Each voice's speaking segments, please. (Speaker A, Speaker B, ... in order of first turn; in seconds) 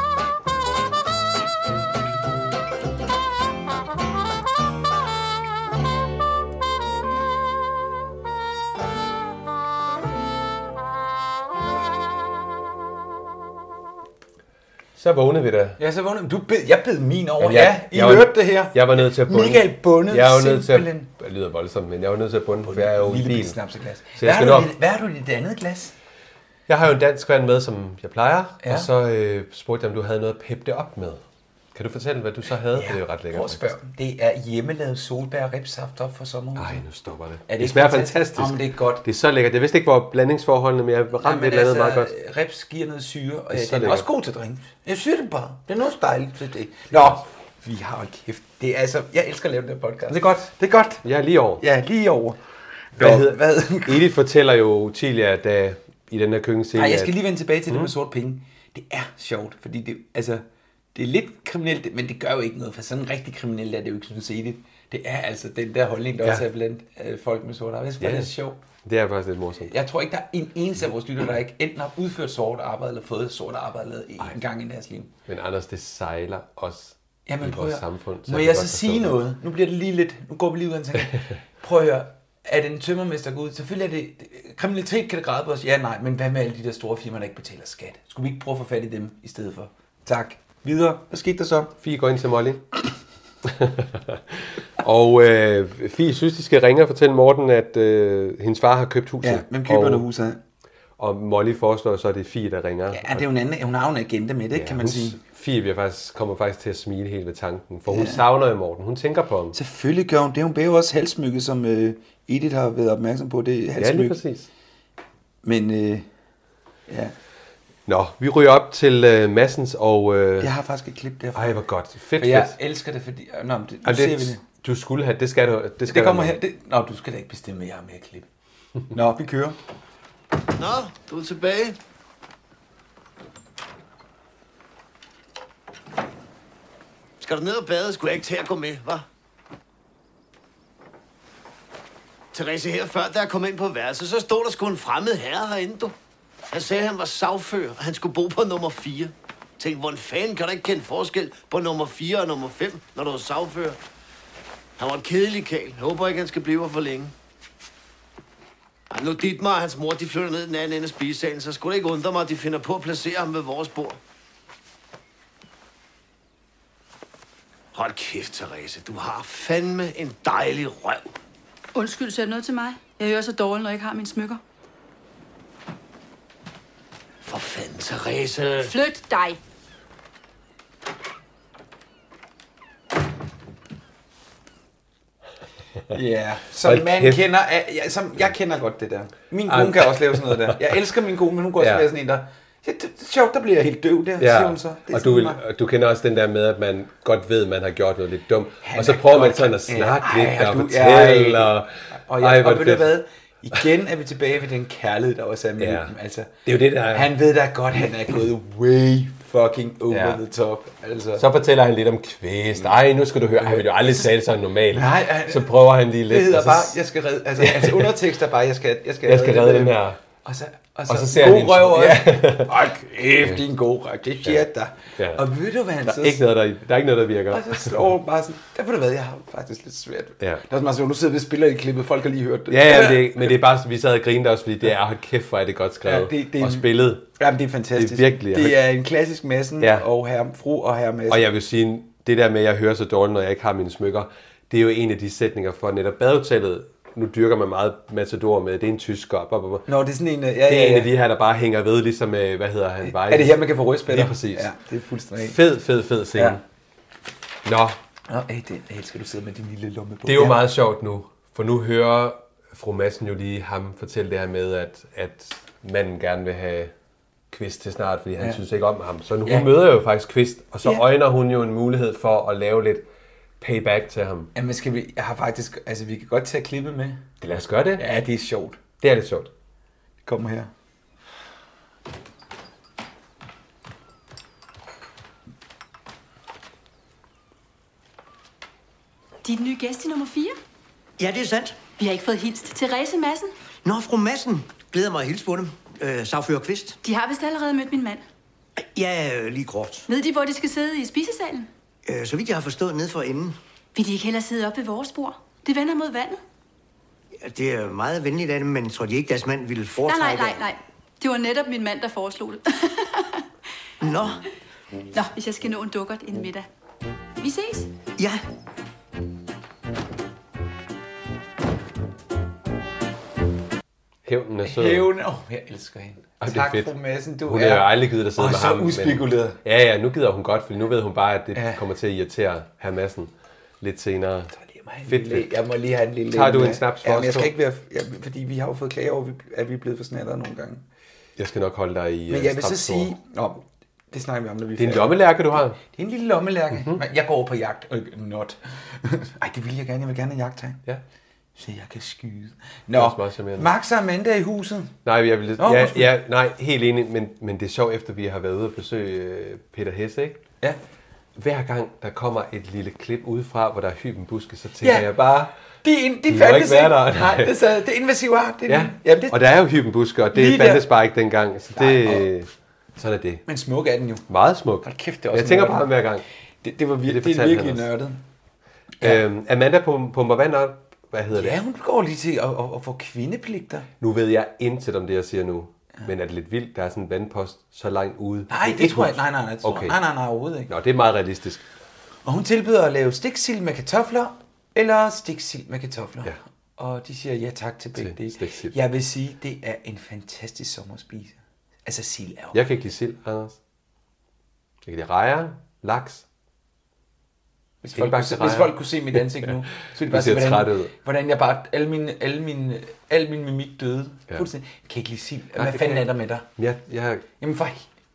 Speaker A: 14.9-15.8, 17.4-23.6, 24.2-24.7, 26.7-31.2, 31.7-33.7, 36.5-42.1, 43.5-44.1, 50.1-50.5, 51.0-51.6, 53.0-57.9, 68.0-68.3, 68.8-69.7, 75.3-79.2, 91.8-92.7, 93.4-100.0, 101.0-103.2, 104.5-109.5, 113.8-114.5, 117.9-120.5, 121.3-122.5, 123.8-126.4, 186.6-187.2, 189.4-190.7, 191.6-191.9, 194.2-203.0, 205.6-205.9, 206.4-207.1, 209.9-210.2, 211.2-216.8, 217.3-218.0, 219.0-220.0, 220.9-222.5, 224.9-225.2, 225.8-227.8, 232.5-237.1, 237.7-238.6, 239.6-239.8, 241.1-249.7, 250.4-254.5, 255.2-256.4, 257.4-257.8, 260.1-266.7, 267.3-272.8, 273.4-274.3, 277.2-277.8, 278.8-279.3, 324.0-324.9, 326.2-326.7, 327.2-334.3, 334.9-335.4, 336.1-337.3, 341.2-342.9, 344.6-345.6, 346.5-346.8, 352.7-353.5, 354.8-360.2, 361.1-365.3, 366.1-367.4, 368.5-373.2, 374.1-376.0, 376.8-377.7, 378.8-381.4, 383.8-389.8, 390.5-391.4, 397.8-398.6, 402.3-403.4, 404.6-406.0, 407.7-408.6, 409.8-410.7, 415.4-417.0
Speaker B: 15.8-21.1, 22.6-25.9, 28.6-28.9, 32.7-36.8, 37.5-39.0, 41.1-51.0, 51.6-52.4, 52.9-54.1, 56.7-60.4, 60.9-68.6, 69.7-75.1, 77.3-91.7, 99.2-100.4, 102.9-105.2, 107.9-108.2, 109.5-114.2, 115.4-116.1, 116.9-117.1, 120.4-121.6, 122.2-124.4, 125.8-128.3, 128.9-129.6, 185.9-195.4, 198.6-206.3, 206.8-211.2, 213.4-214.0, 214.7-226.2, 227.3-233.3, 235.8-241.2, 249.7-250.9, 252.8-255.4, 256.1-256.4, 258.1-260.5, 269.2-269.6, 274.3-277.0, 277.8-278.6, 280.1-280.5, 324.4-329.4, 331.3-331.6, 334.3-340.6, 342.1-350.6, 351.4-354.8, 355.4-355.9, 364.6-369.2, 370.1-370.7, 371.5-372.1, 373.3-374.0, 374.6-375.7, 376.4-378.0, 381.1-383.7, 388.3-390.5, 392.0-402.4, 407.6-416.3, 417.2-417.7
Speaker C: 130.6-131.8, 137.2-139.0, 142.3-145.9, 146.5-153.8, 154.8-157.1, 158.9-164.0, 167.7-171.1, 177.2-178.7
Speaker D: 171.7-174.4, 178.6-179.4, 289.2-290.4, 291.8-293.3, 296.8-298.0, 299.9-301.5, 303.7-306.2, 309.8-313.2, 314.9-316.5, 317.2-317.7
Speaker E: 291.0-291.6, 293.6-296.8, 298.7-299.9, 301.9-303.4, 307.2-310.4, 313.8-314.2